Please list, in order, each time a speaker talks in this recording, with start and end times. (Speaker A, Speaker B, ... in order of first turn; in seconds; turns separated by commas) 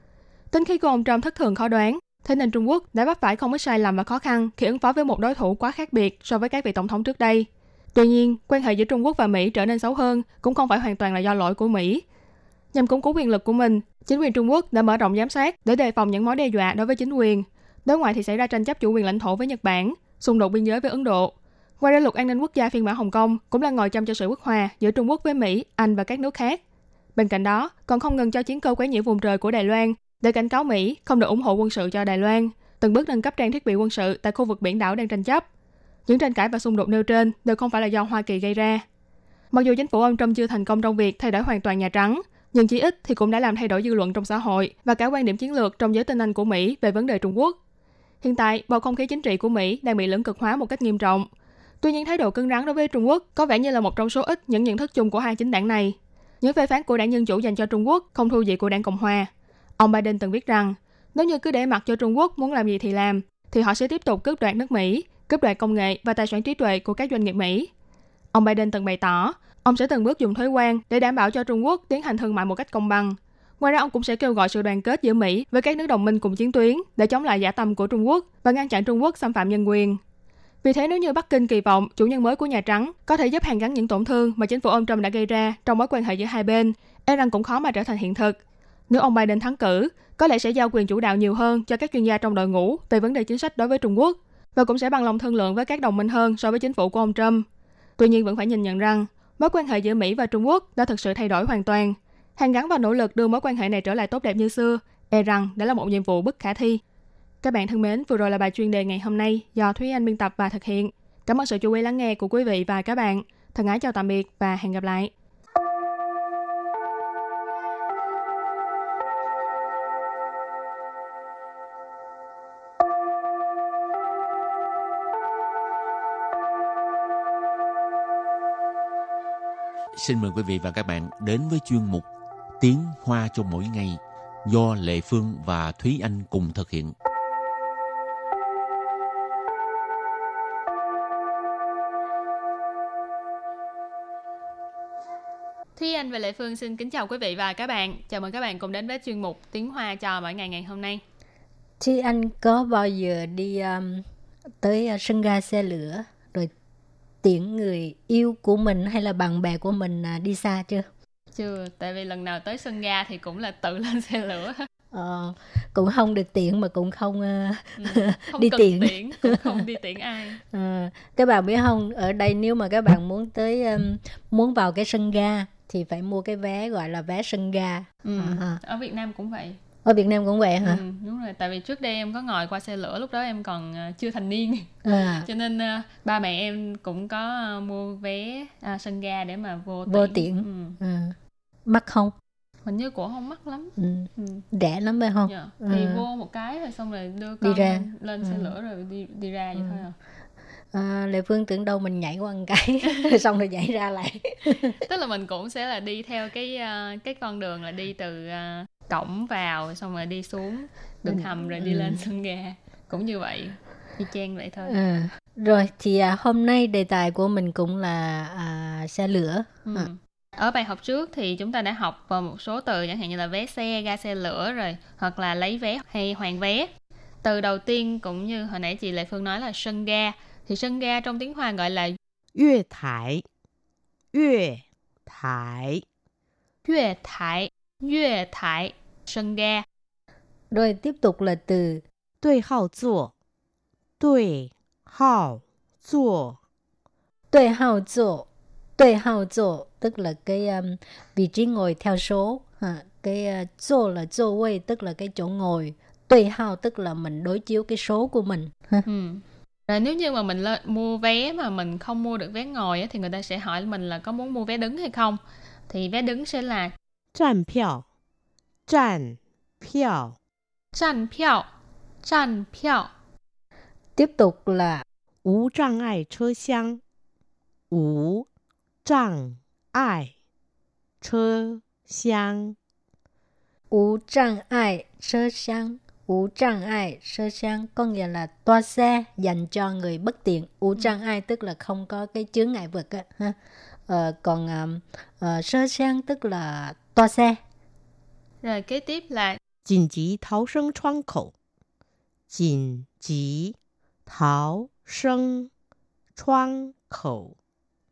Speaker A: 0.5-12.0, Speaker A: 12.7-26.6, Speaker A: 27.1-35.4, Speaker A: 36.1-38.8, Speaker A: 39.5-47.5, Speaker A: 48.2-51.3, Speaker A: 51.8-67.7, Speaker A: 68.3-80.0, Speaker A: 80.6-88.4, Speaker A: 88.9-97.4, Speaker A: 98.0-106.8, Speaker A: 107.4-115.1, Speaker B: 129.9-132.1, Speaker B: 132.6-136.9, Speaker C: 145.8-151.0, Speaker D: 151.8-154.1, Speaker D: 154.6-156.5, Speaker D: 157.2-160.9, Speaker C: 161.3-164.6, Speaker D: 164.9-169.6, Speaker C: 167.8-170.4, Speaker D: 170.5-178.6, Speaker C: 178.0-179.6, Speaker D: 179.8-180.8, Speaker C: 180.6-184.7, Speaker D: 184.8-185.3, Speaker C: 185.2-190.8, Speaker D: 189.9-192.1, Speaker C: 192.6-194.4, Speaker D: 193.8-196.0, Speaker C: 195.3-199.9, Speaker D: 197.4-198.5, Speaker D: 199.6-199.8, Speaker D: 200.7-204.8, Speaker C: 204.8-214.8, Speaker D: 211.1-212.0, Speaker D: 214.6-219.9, Speaker C: 219.7-226.7, Speaker C: 227.2-232.0, Speaker E: 232.3-233.2, Speaker E: 234.1-235.8, Speaker C: 236.7-239.6, Speaker D: 240.5-241.8, Speaker E: 242.2-243.1, Speaker E: 244.0-246.4, Speaker D: 247.3-258.9, Speaker C: 258.9-266.7, Speaker E: 267.1-267.8, Speaker E: 268.7-270.2, Speaker C: 270.7-271.5, Speaker C: 272.0-272.9, Speaker D: 273.9-274.8, Speaker E: 275.2-276.8, Speaker E: 277.7-278.3, Speaker E: 278.8-280.1, Speaker E: 281.0-282.6, Speaker D: 283.7-297.4, Speaker C: 298.4-299.4, Speaker E: 299.6-301.3, Speaker E: 302.3-303.6, Speaker E: 304.1-305.5, Speaker E: 306.1-307.4